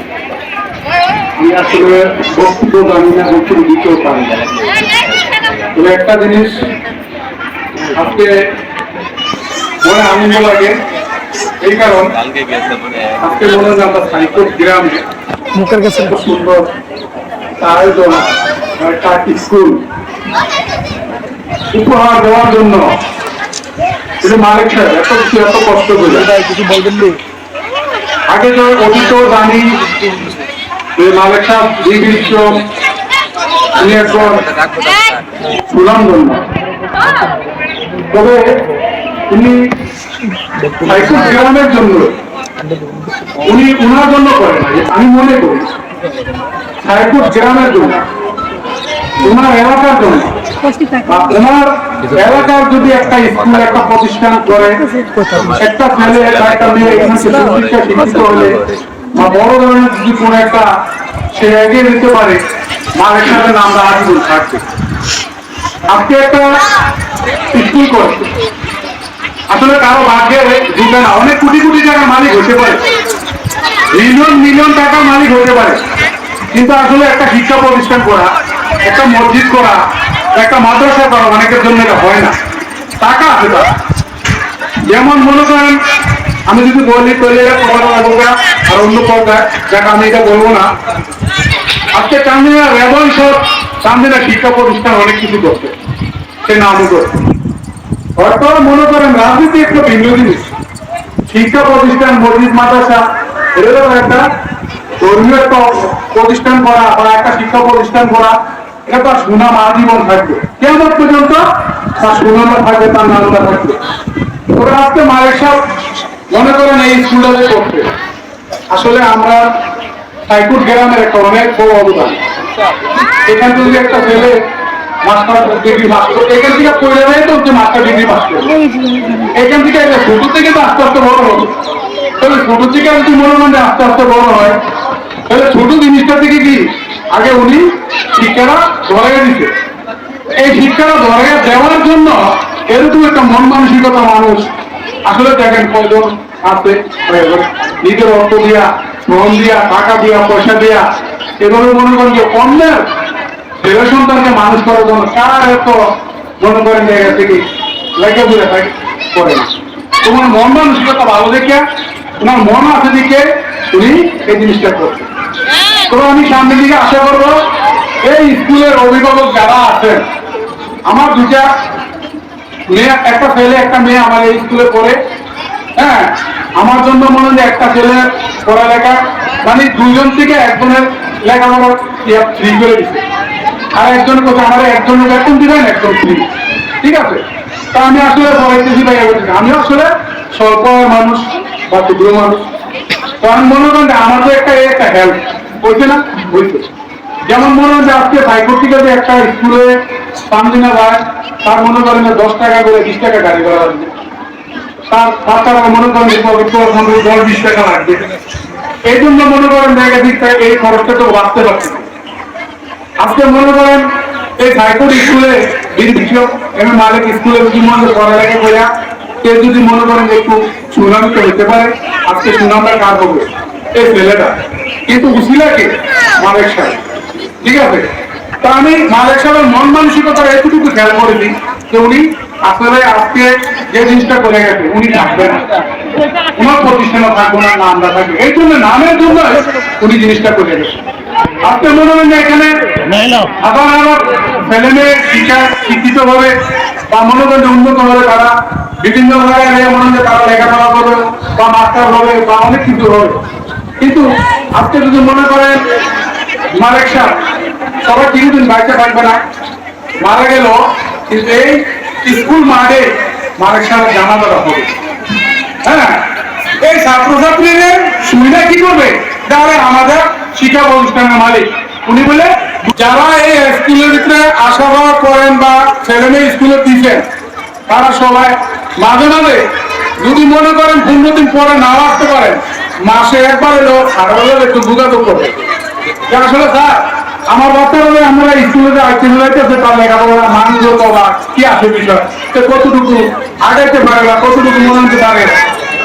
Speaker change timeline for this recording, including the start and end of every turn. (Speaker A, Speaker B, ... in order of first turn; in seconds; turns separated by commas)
Speaker A: 1.4-4.3, Speaker B: 4.3-5.5, Speaker A: 5.7-6.6, Speaker A: 7.9-8.5, Speaker A: 9.8-10.8, Speaker A: 11.6-12.2, Speaker B: 12.2-13.3, Speaker A: 13.2-15.0, Speaker C: 15.6-15.9, Speaker A: 15.8-16.7, Speaker A: 17.6-18.3, Speaker A: 18.8-19.8, Speaker A: 21.7-22.9, Speaker A: 24.2-26.3, Speaker C: 26.3-27.2, Speaker A: 28.3-29.8, Speaker A: 31.0-32.7, Speaker A: 33.8-34.5, Speaker B: 34.5-35.1, Speaker A: 35.6-36.5, Speaker A: 38.0-38.7, Speaker A: 39.3-39.7, Speaker C: 40.6-40.9, Speaker A: 40.8-42.2, Speaker C: 42.6-43.3, Speaker A: 43.4-45.7, Speaker A: 46.8-48.0, Speaker A: 49.2-50.4, Speaker A: 51.0-54.9, Speaker C: 55.0-55.3, Speaker B: 55.3-55.6, Speaker A: 55.6-58.6, Speaker B: 56.9-57.6, Speaker B: 58.3-58.8, Speaker A: 59.1-60.7, Speaker A: 61.3-62.4, Speaker A: 63.0-64.6, Speaker A: 65.9-66.5, Speaker A: 67.5-68.3, Speaker A: 69.5-72.8, Speaker A: 73.9-75.8, Speaker A: 76.5-79.8, Speaker A: 80.3-82.3, Speaker A: 83.0-83.7, Speaker A: 84.9-85.8, Speaker A: 86.5-90.7, Speaker A: 91.9-95.8, Speaker A: 96.4-97.2, Speaker A: 98.2-100.5, Speaker A: 101.3-104.3, Speaker A: 105.0-111.4, Speaker A: 112.0-113.8, Speaker A: 114.5-115.6, Speaker A: 116.3-117.9, Speaker A: 118.7-119.5, Speaker A: 120.2-122.2, Speaker A: 123.3-124.4, Speaker A: 125.0-128.6, Speaker A: 129.3-131.5, Speaker A: 132.2-134.6, Speaker A: 135.3-139.5, Speaker A: 140.4-144.5, Speaker A: 145.1-150.9, Speaker A: 151.4-152.8, Speaker A: 153.6-155.8, Speaker A: 156.4-157.4, Speaker A: 158.0-159.5, Speaker A: 160.0-161.6, Speaker A: 162.2-165.1, Speaker A: 165.9-167.4, Speaker A: 168.0-170.1, Speaker A: 170.9-171.5, Speaker A: 172.7-175.0, Speaker A: 175.8-183.0, Speaker A: 183.7-186.3, Speaker A: 186.8-192.5, Speaker A: 193.2-196.7, Speaker A: 197.3-199.8, Speaker A: 200.3-203.9, Speaker A: 204.9-208.1, Speaker A: 208.9-211.9, Speaker A: 213.0-213.9, Speaker A: 214.4-218.7, Speaker A: 219.2-226.8, Speaker A: 227.4-227.9, Speaker A: 228.4-235.5, Speaker A: 236.4-240.8, Speaker A: 241.4-242.6, Speaker A: 243.2-246.3, Speaker A: 246.9-253.2, Speaker A: 253.8-254.1, Speaker A: 254.6-255.7, Speaker A: 256.6-257.2, Speaker A: 257.8-259.2, Speaker A: 260.0-264.7, Speaker A: 265.6-266.1, Speaker A: 266.6-277.1, Speaker A: 277.7-279.5, Speaker A: 280.0-285.4, Speaker A: 286.1-295.4